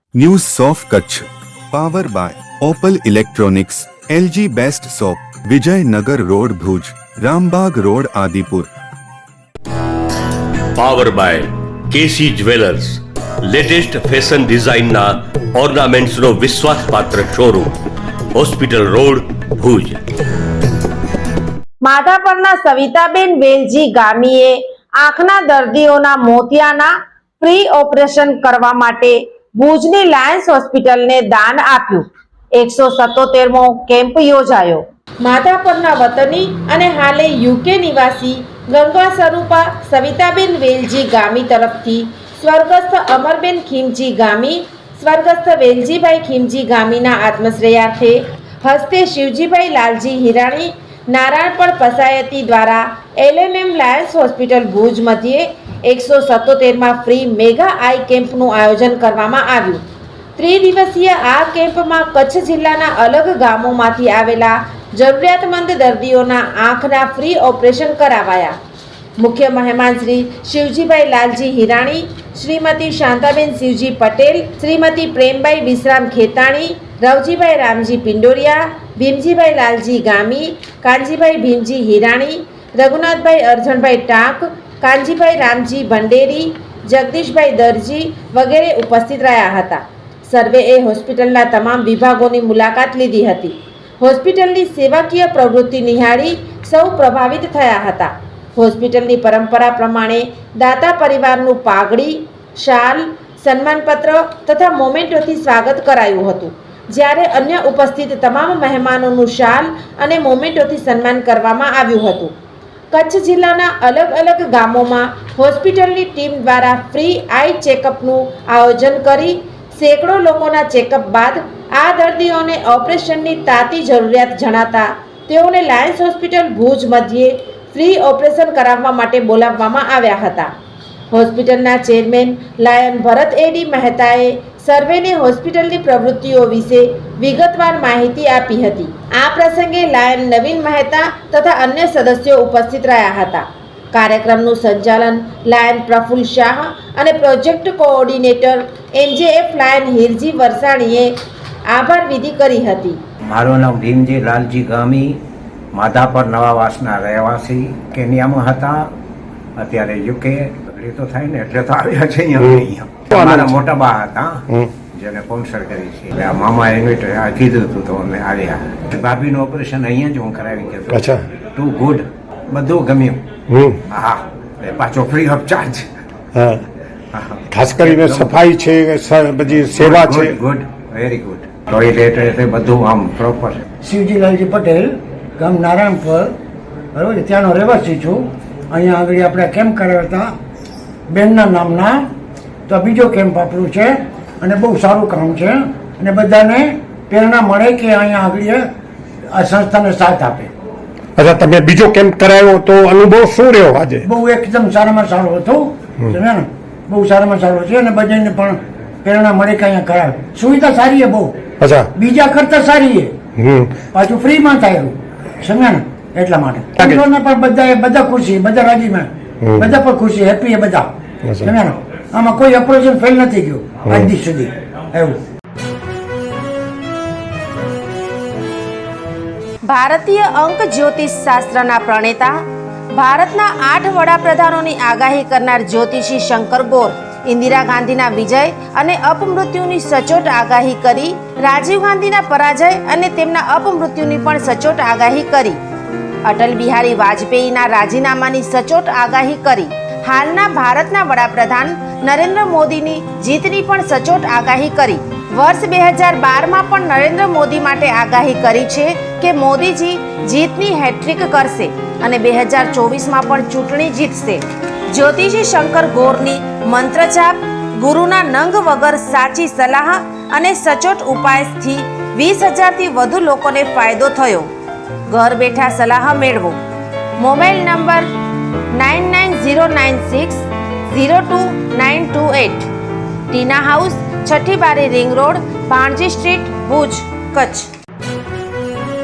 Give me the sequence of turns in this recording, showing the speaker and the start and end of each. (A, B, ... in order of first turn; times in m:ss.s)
0:00.2-0:08.7 A
0:10.8-0:17.8 B
0:18.3-0:20.0 B
0:21.8-0:59.8 C
1:00.4-1:08.6 C
1:09.2-1:52.3 C
1:52.9-2:10.5 C
2:11.1-2:31.1 C
2:31.7-2:33.0 C
2:33.3-2:35.2 D
2:35.7-2:38.9 D
2:39.6-2:53.2 D
2:42.4-2:43.6 E
2:50.9-2:51.3 E
2:53.5-2:53.8 E
2:53.9-2:55.9 D
2:56.4-2:56.6 E
2:57.1-2:58.4 D
2:57.5-3:00.4 E
2:59.5-3:03.6 D
3:03.8-3:06.4 F
3:07.0-3:10.3 F
3:11.1-3:12.1 F
3:12.7-3:18.7 F
3:19.3-3:20.5 F
3:21.2-3:24.0 E
3:24.0-3:31.4 F
3:31.6-3:31.9 E
3:31.9-3:33.2 F
3:33.4-3:33.7 E
3:33.8-3:40.9 F
3:41.4-3:45.2 F
3:49.6-3:52.4 C
3:52.9-4:05.6 C
4:06.2-4:34.5 C
4:35.1-4:36.6 C
4:37.2-4:38.1 C
4:38.7-4:42.7 C
4:43.3-4:47.7 C